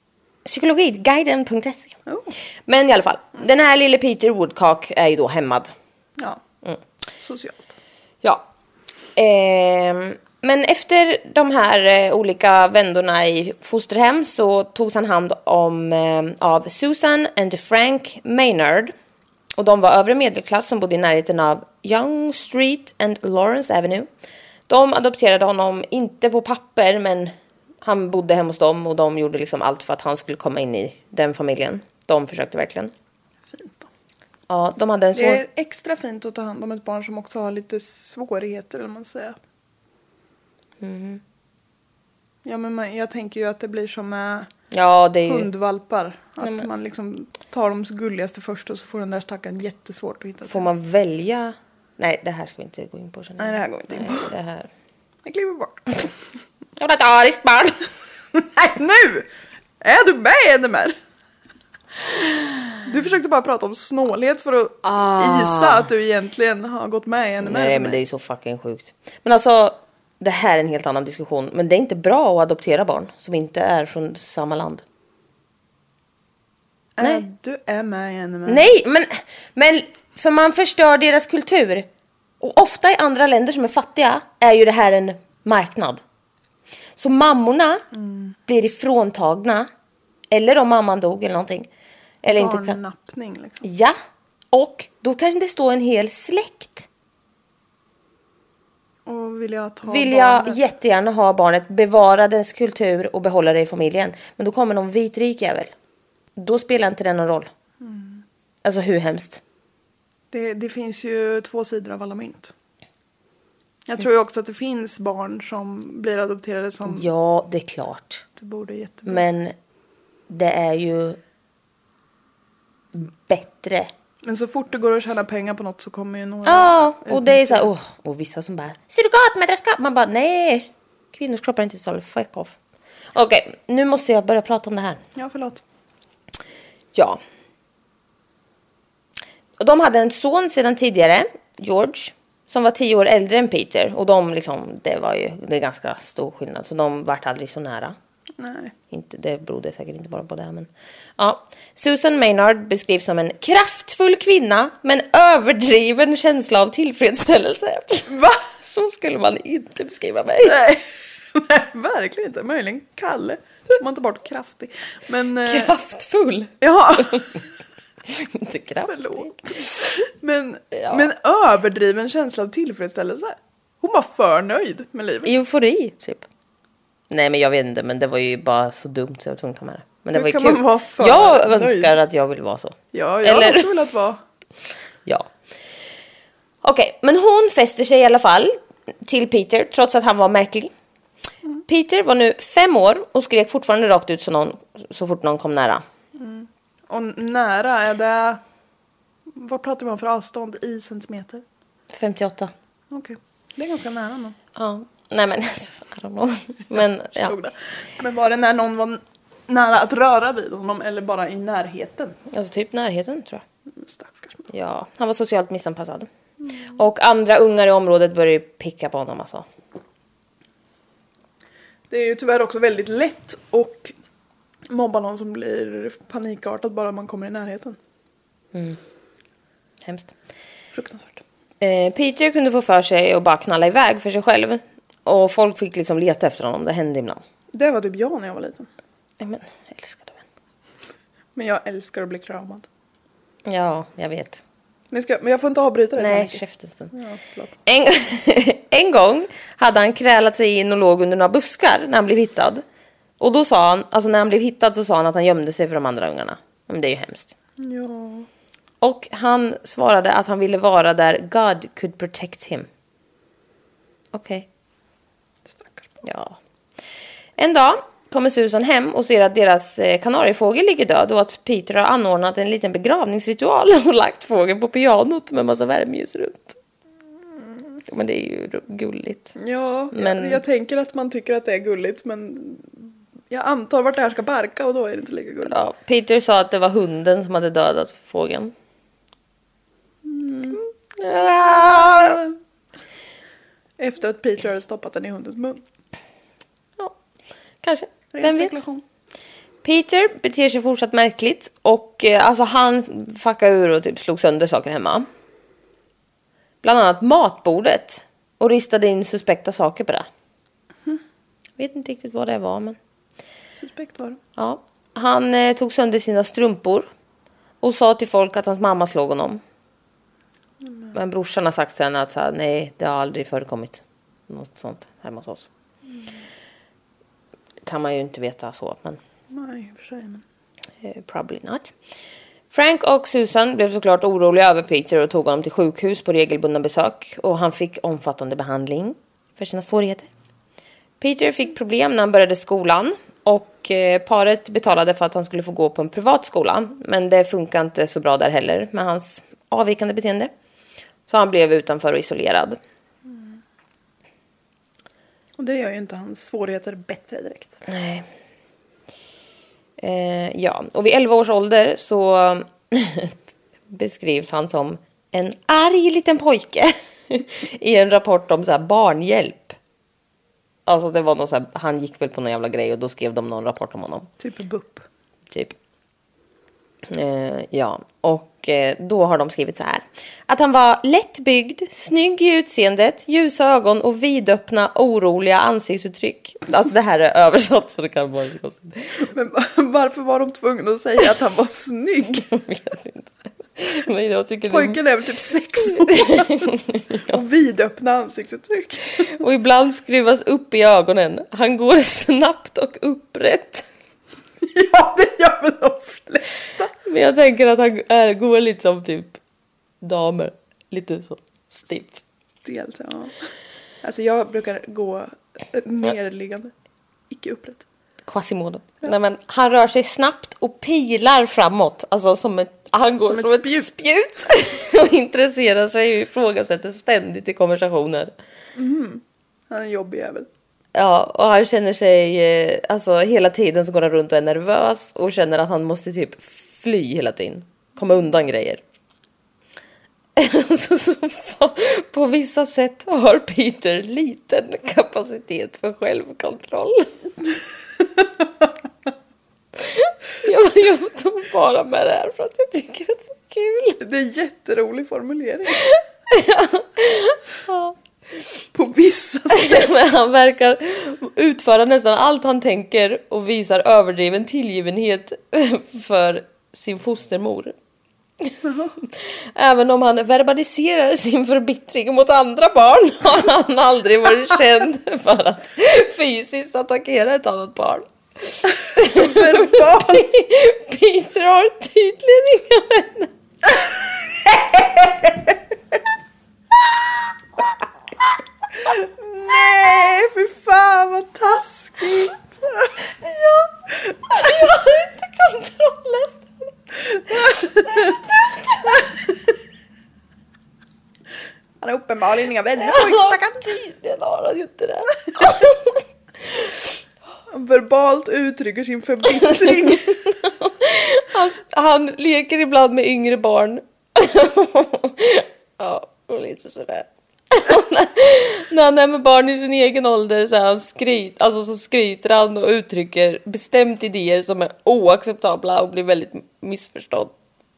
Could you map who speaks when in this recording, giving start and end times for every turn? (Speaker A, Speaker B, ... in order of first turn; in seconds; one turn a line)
Speaker A: 0.5-1.9
Speaker B: 2.1-2.3
Speaker A: 2.7-5.7
Speaker B: 7.2-7.7
Speaker A: 9.2-18.9
Speaker A: 19.6-24.1
Speaker A: 24.7-32.9
Speaker B: 33.5-33.9
Speaker A: 34.5-35.4
Speaker B: 35.1-39.4
Speaker A: 40.8-41.2
Speaker B: 42.5-44.5
Speaker A: 44.7-45.5
Speaker B: 45.3-50.7
Speaker A: 46.4-46.7
Speaker A: 50.5-54.7
Speaker B: 53.4-54.3
Speaker B: 55.2-56.0
Speaker A: 56.8-57.9
Speaker B: 58.4-59.3
Speaker B: 59.8-61.0
Speaker B: 62.9-68.0
Speaker A: 64.8-65.9
Speaker A: 67.4-74.8
Speaker B: 77.0-78.7
Speaker A: 78.5-81.9
Speaker A: 82.4-86.0
Speaker A: 87.0-87.8
Speaker B: 87.9-88.4
Speaker A: 88.5-89.7
Speaker A: 90.3-91.7
Speaker A: 92.2-92.8
Speaker B: 92.3-93.7
Speaker A: 93.6-94.0
Speaker A: 94.5-96.9
Speaker B: 99.1-100.6
Speaker A: 99.9-105.7
Speaker A: 106.4-107.5
Speaker B: 107.8-108.2
Speaker A: 108.6-109.4
Speaker B: 110.3-112.5
Speaker B: 113.9-117.1
Speaker A: 116.8-118.2
Speaker B: 118.4-119.3
Speaker A: 119.1-119.5
Speaker A: 120.3-121.2
Speaker A: 122.9-123.9
Speaker B: 124.2-127.7
Speaker A: 126.5-132.6
Speaker A: 133.1-135.0
Speaker B: 135.2-135.6
Speaker A: 136.9-137.2
Speaker A: 139.6-148.0
Speaker B: 148.4-148.7
Speaker A: 148.9-160.6
Speaker B: 158.1-158.4
Speaker B: 160.4-165.7
Speaker A: 165.4-167.4
Speaker B: 166.6-167.5
Speaker A: 168.1-169.3
Speaker B: 168.8-175.3
Speaker A: 170.7-171.1
Speaker A: 175.2-176.2
Speaker A: 177.1-183.7
Speaker B: 180.1-182.0
Speaker B: 182.9-184.2
Speaker A: 186.6-190.7
Speaker A: 191.7-195.8
Speaker B: 196.2-198.4
Speaker B: 199.3-201.4
Speaker A: 201.9-202.5
Speaker B: 202.9-204.4
Speaker A: 204.6-207.3
Speaker B: 207.2-212.2
Speaker A: 212.3-213.4
Speaker B: 213.7-214.4
Speaker A: 214.5-216.1
Speaker A: 216.8-219.5
Speaker B: 221.9-223.9
Speaker B: 224.7-227.8
Speaker A: 228.5-228.8
Speaker A: 229.8-230.1
Speaker B: 230.7-231.2
Speaker A: 231.6-237.2
Speaker B: 237.5-238.7
Speaker A: 239.2-240.2
Speaker B: 241.4-242.7
Speaker A: 243.5-244.4
Speaker B: 244.9-247.5
Speaker A: 246.0-246.9
Speaker A: 247.7-252.6
Speaker A: 253.2-257.4
Speaker B: 257.6-258.3
Speaker A: 258.8-262.7
Speaker A: 264.1-264.5
Speaker B: 265.5-265.9
Speaker A: 266.0-266.4
Speaker A: 267.4-276.6
Speaker A: 277.9-279.4
Speaker B: 279.4-285.6
Speaker A: 279.9-280.4
Speaker A: 285.5-288.5
Speaker B: 290.1-290.6
Speaker A: 291.0-292.2
Speaker B: 291.5-292.3
Speaker B: 293.8-295.6
Speaker A: 297.6-298.6
Speaker B: 298.1-298.8
Speaker A: 299.6-305.1
Speaker A: 306.6-310.1
Speaker A: 311.6-312.8
Speaker B: 313.6-314.2
Speaker A: 314.4-316.9
Speaker A: 317.6-319.4
Speaker B: 320.7-320.9
Speaker A: 320.9-325.5
Speaker A: 327.7-329.0
Speaker B: 329.3-330.2
Speaker A: 330.8-331.7
Speaker A: 332.5-340.1
Speaker A: 341.0-350.3
Speaker A: 351.1-352.6
Speaker B: 353.1-353.4
Speaker B: 355.4-357.6
Speaker A: 357.7-358.1
Speaker A: 359.8-363.1
Speaker A: 363.7-369.6
Speaker A: 370.7-374.1
Speaker B: 374.2-374.9
Speaker A: 376.9-389.0
Speaker B: 389.1-392.3
Speaker A: 392.3-394.8
Speaker B: 394.5-396.6
Speaker A: 395.7-397.2
Speaker B: 397.1-399.1
Speaker A: 399.1-403.7
Speaker B: 404.4-406.7
Speaker A: 406.9-409.2
Speaker A: 409.8-412.0
Speaker B: 412.4-413.2
Speaker B: 413.8-416.5
Speaker B: 417.1-417.6
Speaker A: 418.1-428.1
Speaker B: 423.0-423.8
Speaker B: 428.6-430.3
Speaker A: 430.8-438.6
Speaker A: 440.2-446.9
Speaker A: 449.6-453.8
Speaker B: 453.8-455.7
Speaker A: 455.6-457.8
Speaker B: 458.5-459.7
Speaker A: 459.3-467.5
Speaker A: 468.2-483.1
Speaker B: 468.4-468.7
Speaker B: 478.8-480.1
Speaker B: 484.1-485.1
Speaker B: 488.7-492.7
Speaker A: 493.0-493.5
Speaker A: 494.1-496.5
Speaker A: 497.1-498.8
Speaker B: 497.2-497.9
Speaker B: 501.6-503.6
Speaker A: 502.6-505.8
Speaker B: 507.3-510.2
Speaker A: 509.4-527.1